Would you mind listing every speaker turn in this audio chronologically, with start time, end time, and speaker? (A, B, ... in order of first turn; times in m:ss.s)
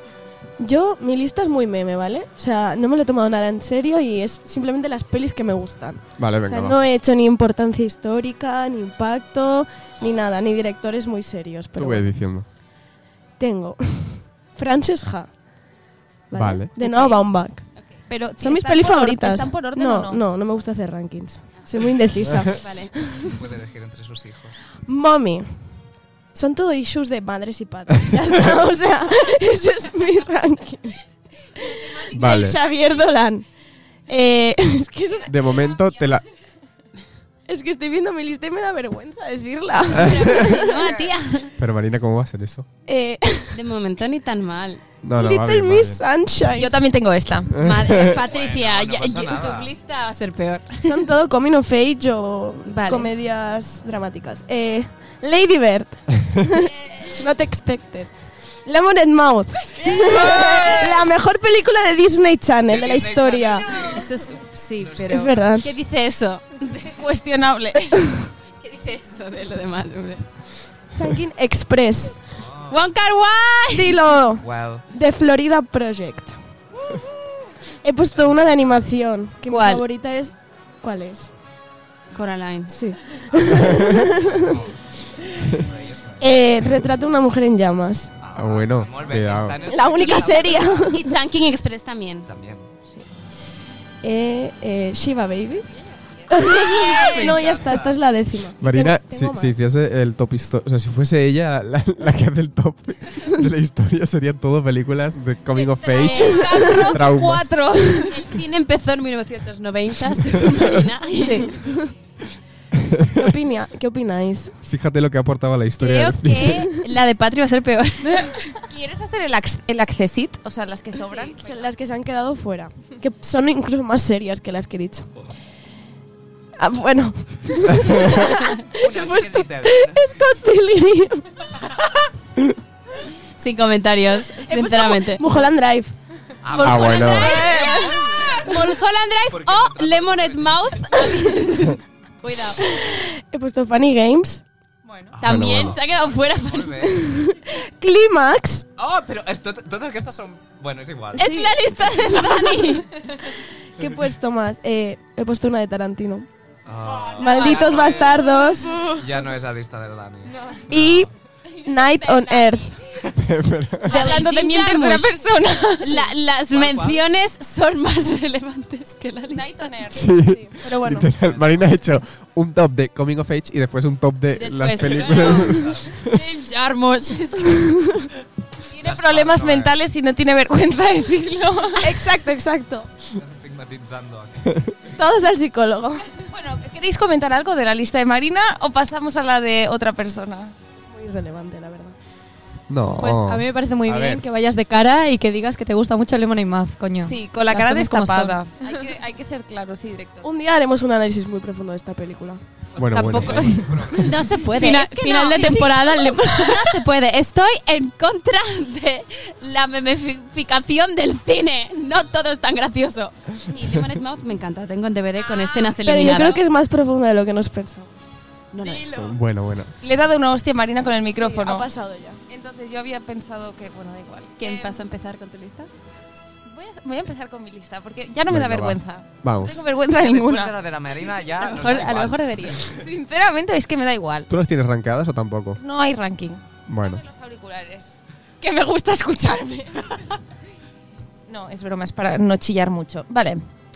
0:00.6-0:12.1 A
0:06.2-0:06.8 B
0:11.8-0:12.5 B
0:13.4-0:15.4 A
0:16.3-0:17.9 A
0:16.3-0:16.7 B
0:16.8-0:18.0 C
0:18.1-0:20.2 D
0:18.4-0:23.3 A
0:22.4-0:23.0 C
0:23.2-0:24.6 E
0:24.9-0:25.6 A
0:26.3-0:31.0 A
0:31.6-0:33.5 A
0:32.1-0:32.6 B
0:34.1-0:35.4 A
0:35.3-0:36.2 B
0:37.5-0:40.8 A
0:40.0-0:41.5 C
0:40.7-0:41.2 E
0:41.6-0:42.7 B
0:42.9-0:43.6 A
0:43.5-0:44.8 C
0:45.0-0:46.0 B
0:45.2-0:46.7 A
0:46.6-0:47.7 D
0:47.5-0:48.2 B
0:47.6-0:51.0 C
0:48.1-0:49.7 E
0:50.8-1:03.7 A
0:52.6-0:53.1 C
0:59.8-1:00.9 C
1:02.7-1:04.1 E
1:03.7-1:06.9 C
1:04.8-1:05.4 E
1:05.1-1:05.7 A
1:06.9-1:08.2 D
1:08.6-1:10.3 C
1:11.0-1:12.2 A
1:12.4-1:12.8 E
1:12.7-1:14.0 C
1:13.7-1:16.4 A
1:14.4-1:14.8 E
1:17.8-1:21.3 A
1:18.2-1:18.8 E
1:19.5-1:19.8 C
1:22.1-1:22.8 C
1:22.7-1:24.6 A
1:23.6-1:24.8 E
1:25.4-1:26.3 E
1:26.2-1:28.1 A
1:28.2-1:31.0 E
1:28.4-1:29.6 B
1:29.7-1:31.1 A
1:30.9-1:32.3 C
1:32.3-1:32.7 E
1:34.0-1:35.7 A
1:35.9-1:37.4 C
1:36.3-1:39.6 A
1:36.9-1:38.0 E
1:38.6-1:47.9 B
1:45.5-1:51.6 C
1:46.0-1:46.9 A
1:51.1-1:51.9 A
1:52.8-1:53.2 B
1:53.1-1:54.6 A
1:54.6-1:56.7 B
1:55.8-1:58.4 C
1:58.6-2:01.7 D
2:01.3-2:05.1 A
2:06.6-2:11.5 A
2:08.8-2:10.2 E
2:13.4-2:15.4 C
2:14.4-2:16.0 A
2:16.4-2:18.6 E
2:16.5-2:22.6 C
2:16.6-2:17.4 B
2:17.0-2:18.6 A
2:19.3-2:21.1 E
2:22.6-2:25.1 A
2:25.2-2:27.2 E
2:25.2-2:26.8 C
2:25.2-2:25.8 B
2:26.8-2:28.7 A
2:28.8-2:31.3 E
2:31.1-2:36.3 A
2:31.2-2:32.9 C
2:33.8-2:34.1 E
2:36.6-2:41.1 E
2:37.1-2:39.0 A
2:37.2-2:37.9 C
2:40.4-2:41.1 A
2:41.6-2:42.8 A
2:43.1-2:44.1 B
2:43.8-2:45.1 C
2:43.9-2:46.0 D
2:45.8-2:49.7 C
2:46.5-2:47.0 E
2:49.3-2:50.2 D
2:49.9-2:56.2 B
2:50.2-2:51.1 A
2:51.2-2:51.7 E
2:54.4-2:57.7 C
2:54.8-2:56.0 E
2:57.5-2:58.1 A
2:58.6-3:02.0 D
2:58.8-2:59.8 E
3:01.8-3:02.9 A
3:03.1-3:05.0 E
3:04.9-3:06.1 A
3:06.2-3:10.6 D
3:10.7-3:12.0 A
3:12.7-3:14.2 B
3:13.0-3:18.4 F
3:17.0-3:20.3 D
3:20.2-3:22.4 A
3:22.7-3:24.4 E
3:22.8-3:24.0 B
3:22.9-3:24.1 D
3:24.0-3:36.4 C
3:24.5-3:26.6 F
3:35.3-3:35.7 D
3:35.8-3:38.0 A
3:38.5-3:38.9 C
3:38.6-3:39.2 A
3:38.9-3:39.8 B
3:39.8-3:41.7 D
3:41.1-3:42.2 A
3:42.3-3:44.8 D
3:44.4-3:45.7 C
3:46.4-3:50.6 D
3:48.3-3:49.7 B
3:49.9-3:52.8 E
3:51.4-3:52.7 C
3:52.7-3:54.3 D
3:54.3-3:55.6 B
3:55.6-4:00.0 D
3:56.7-3:57.0 B
4:01.3-4:03.5 D